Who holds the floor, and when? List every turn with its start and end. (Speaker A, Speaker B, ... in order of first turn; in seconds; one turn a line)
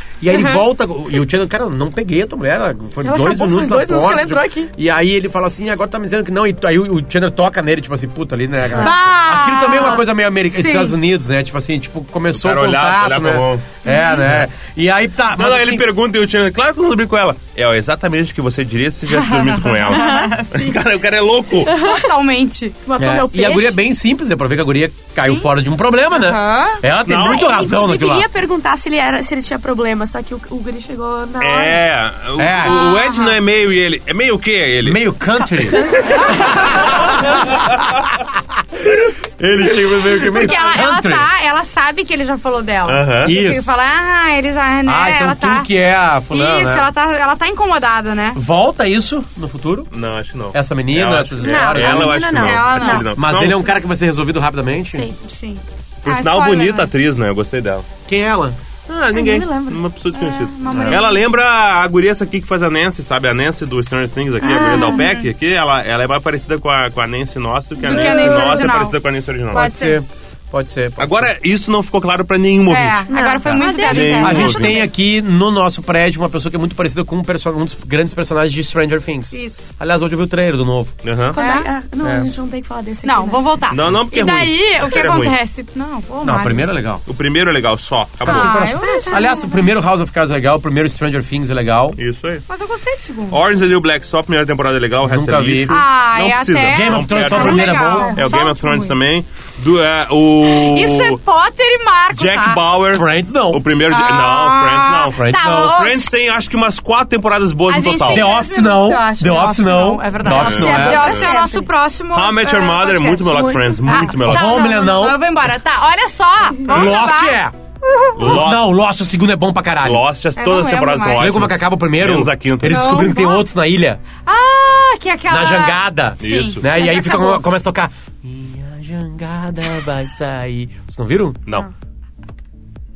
Speaker A: 0.2-15.8
Speaker B: 3.0-4.7
Speaker C: 8.8-11.0
Speaker D: 12.3-13.7
Speaker C: 13.8-14.2
Speaker D: 15.3-21.8
Speaker C: 19.1-20.7
Speaker B: 19.9-20.3
Speaker B: 21.6-22.1
Speaker C: 21.6-22.8
Speaker B: 22.9-23.8
Speaker A: 23.0-28.3
Speaker C: 26.1-26.8
Speaker D: 27.0-27.5
Speaker B: 27.1-31.8
Speaker D: 31.4-35.0
Speaker A: 32.4-32.8
Speaker C: 32.6-33.4
Speaker A: 34.8-41.3
Speaker B: 35.7-36.5
Speaker C: 36.1-36.9
Speaker C: 40.2-45.7
Speaker D: 42.9-43.3
Speaker A: 43.2-43.7
Speaker A: 44.9-46.9
Speaker C: 46.3-48.4
Speaker A: 48.3-49.9
Speaker D: 49.9-53.7
Speaker A: 50.5-52.5
Speaker B: 51.4-53.1
Speaker C: 52.4-53.0
Speaker A: 53.1-55.1
Speaker C: 55.2-56.9
Speaker D: 56.0-57.9
Speaker A: 58.1-58.6
Speaker D: 58.9-69.8
Speaker B: 59.1-59.8
Speaker C: 60.1-61.2
Speaker A: 60.7-61.0
Speaker B: 64.4-65.1
Speaker C: 64.4-65.2
Speaker C: 67.8-69.0
Speaker A: 67.9-68.4
Speaker A: 69.5-71.3
Speaker C: 69.5-69.9
Speaker D: 71.0-74.8
Speaker C: 72.7-74.8
Speaker B: 73.1-74.7
Speaker A: 73.9-81.0
Speaker D: 81.0-81.4
Speaker B: 81.3-83.4
Speaker C: 81.3-81.7
Speaker A: 82.0-82.3
Speaker C: 83.0-86.7
Speaker D: 83.7-85.3
Speaker A: 86.2-87.0
Speaker D: 87.0-88.7
Speaker A: 88.2-92.0
Speaker C: 88.2-89.5
Speaker B: 88.3-89.4
Speaker D: 92.0-92.4
Speaker C: 92.5-93.4
Speaker D: 93.3-101.2
Speaker A: 95.0-95.8
Speaker C: 95.7-98.9
Speaker A: 96.7-98.2
Speaker C: 100.4-102.6
Speaker D: 102.1-108.3
Speaker A: 102.9-103.6
Speaker C: 103.9-106.1
Speaker A: 105.1-105.8
Speaker C: 107.7-117.4
Speaker A: 108.1-111.3
Speaker D: 110.3-111.3
Speaker B: 110.3-111.7
Speaker D: 112.1-114.6
Speaker B: 113.2-114.4
Speaker A: 114.2-115.2
Speaker A: 116.7-117.5
Speaker D: 118.1-118.7
Speaker A: 118.2-120.0
Speaker D: 119.8-123.1
Speaker C: 120.3-121.3
Speaker A: 121.2-124.0
Speaker C: 122.7-123.5
Speaker C: 124.2-127.4
Speaker A: 125.3-131.4
Speaker D: 126.2-126.6